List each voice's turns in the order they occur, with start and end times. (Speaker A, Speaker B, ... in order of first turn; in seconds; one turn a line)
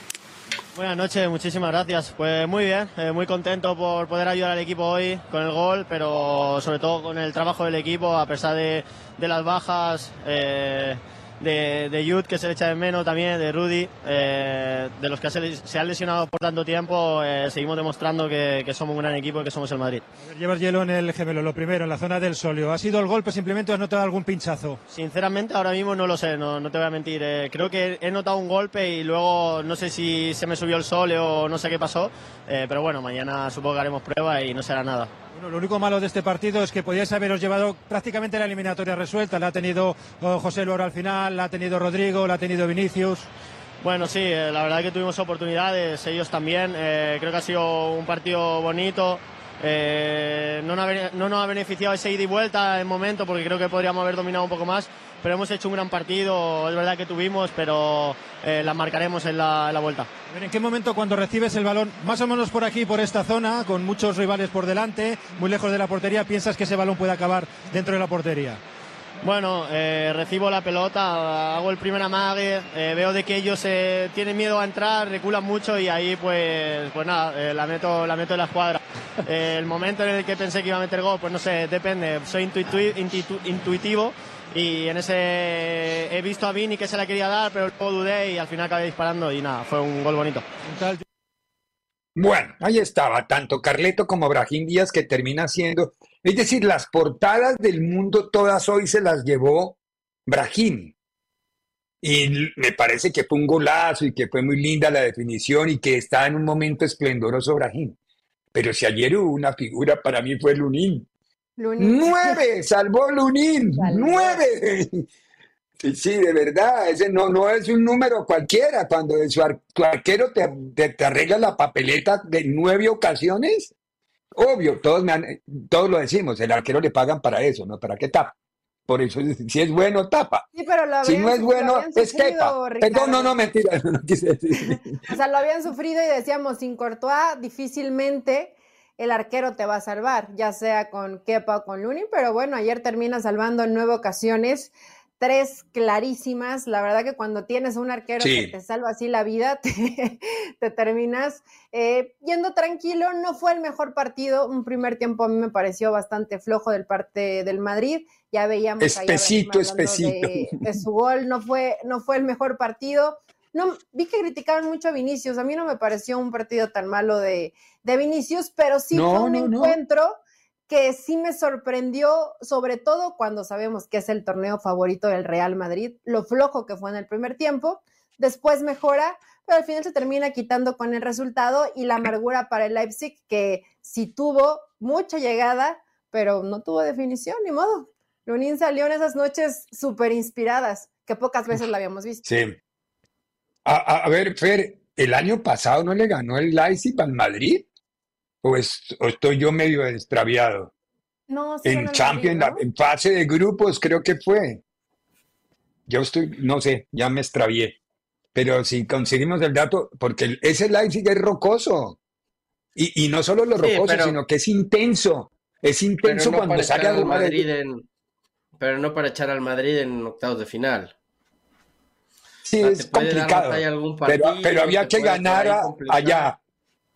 Speaker A: 0.8-20.0
Speaker B: 20.2-24.8
Speaker A: 24.9-35.1
Speaker B: 35.3-43.3
Speaker A: 43.8-60.1
Speaker B: 60.3-68.6
Speaker A: 69.2-90.5
Speaker B: 90.7-91.0
Speaker C: 92.2-100.9
Speaker C: 102.0-108.0
Speaker C: 108.5-111.1
Speaker D: 111.6-112.4
Speaker C: 111.8-115.1
Speaker D: 113.8-114.4
Speaker C: 115.8-123.7
Speaker C: 124.3-128.3
Speaker C: 128.9-130.5
Speaker D: 130.5-133.4
Speaker C: 131.0-135.0
Speaker D: 134.6-192.2
Speaker C: 148.2-148.5
Speaker C: 158.8-160.8
Speaker C: 168.9-169.8
Speaker C: 192.2-192.6
Speaker C: 193.7-197.7
Speaker C: 198.4-200.7
Speaker D: 201.3-202.6
Speaker C: 201.6-204.6
Speaker C: 205.9-207.8
Speaker C: 208.3-212.0
Speaker C: 212.8-217.5
Speaker E: 213.6-214.2
Speaker E: 216.0-217.8
Speaker E: 218.6-220.9
Speaker C: 222.4-226.4
Speaker E: 222.6-226.3